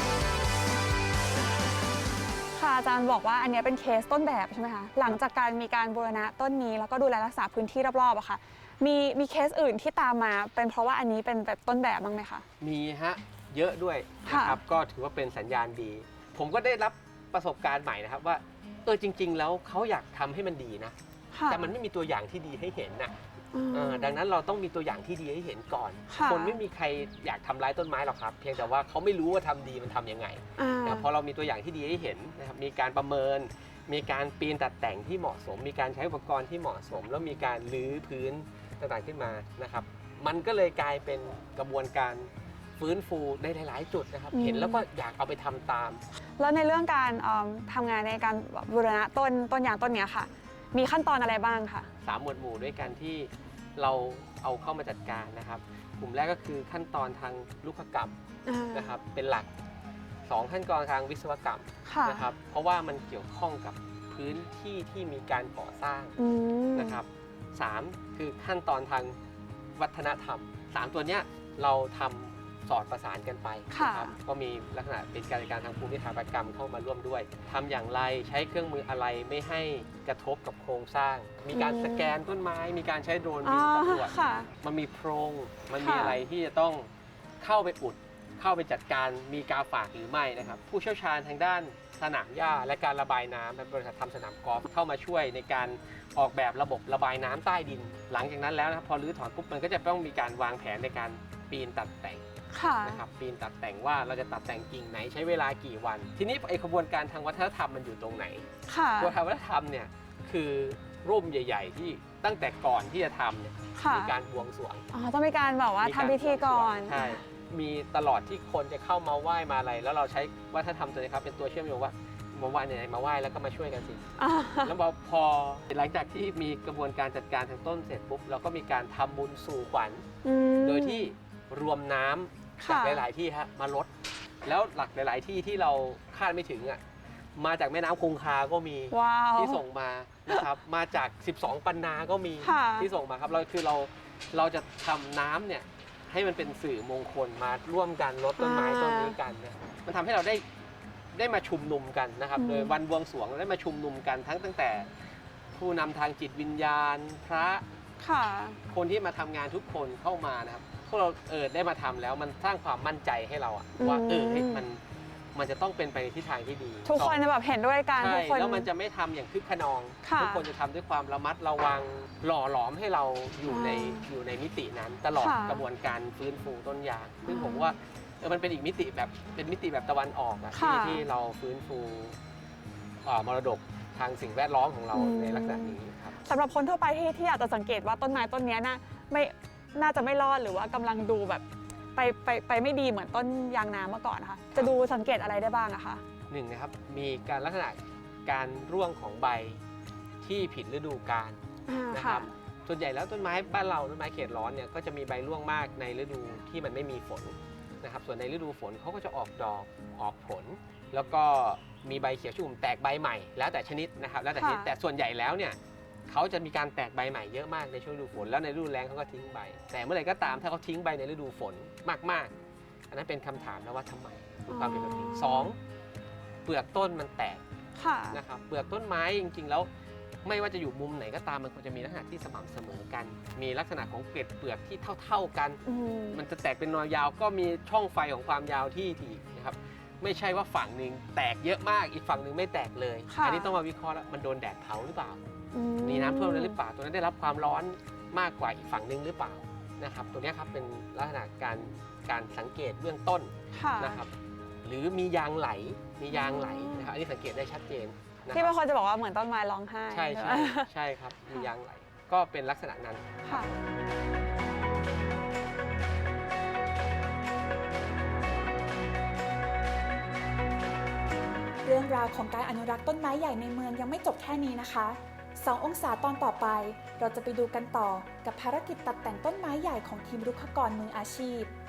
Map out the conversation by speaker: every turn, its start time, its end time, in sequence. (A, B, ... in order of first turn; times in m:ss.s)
0:02.6-0:12.4 A
0:12.6-0:21.0 B
0:14.3-0:14.6 A
0:21.3-0:21.7 A
0:21.5-0:23.2 B
0:23.5-0:24.2 A
0:23.7-0:46.0 B
0:26.1-0:26.6 A
0:30.6-0:31.1 A
0:44.3-0:44.8 A
0:46.4-0:51.9 A
0:52.0-0:58.2 B
0:58.5-0:58.9 A
0:58.7-0:59.5 B
1:00.3-1:06.2 B
1:01.9-1:02.3 A
1:06.2-1:07.0 A
1:06.8-1:09.2 B
1:09.8-1:26.9 B
1:13.7-1:14.2 A
1:21.5-1:22.1 A
1:23.4-1:24.5 A
1:25.8-1:26.2 A
1:27.4-1:42.3 B
1:42.5-1:43.0 A
1:42.8-1:55.0 B
1:48.7-1:49.1 A
1:53.8-1:54.1 A
1:54.9-1:57.2 A
1:55.8-2:04.0 B
2:04.2-2:04.7 A
2:04.6-2:10.1 B
2:10.2-2:11.1 A
2:10.6-2:13.9 B
2:12.6-2:13.0 A
2:14.4-2:16.8 B
2:17.4-2:30.4 B
2:18.9-2:19.6 A
2:22.4-2:22.9 A
2:28.4-2:29.2 A
2:31.1-2:34.9 B
2:32.4-2:32.7 A
2:35.6-2:37.6 B
2:38.0-2:38.6 A
2:38.7-2:44.8 B
2:43.8-2:44.6 A
2:45.3-2:47.2 B
2:46.9-2:48.7 A
2:48.0-3:02.2 B
2:50.0-2:50.4 A
2:53.5-2:54.0 A
2:55.2-2:55.6 A
2:57.3-2:57.7 A
3:00.6-3:01.0 A
3:03.0-3:06.2 B
3:04.9-3:11.4 A
3:12.0-3:16.0 A
3:16.3-3:19.6 B
3:20.2-3:21.4 B
3:21.7-3:22.3 A
3:21.9-3:42.3 B
3:34.4-3:34.7 A
3:42.9-3:45.6 B
3:44.5-3:45.5 A
3:46.4-3:47.4 B
3:47.8-3:48.2 A
3:48.1-3:49.7 B
3:50.2-3:55.6 B
3:55.7-3:56.2 A
3:56.1-4:05.2 B
4:03.1-4:03.5 A
4:05.5-4:06.6 A
4:05.8-4:14.1 B
4:13.5-4:14.0 A
4:14.6-4:18.6 B
4:16.1-4:16.9 A
4:18.3-4:20.7 A
4:19.9-4:23.6 B
4:23.3-4:23.5 A
4:31.6-4:41.5 C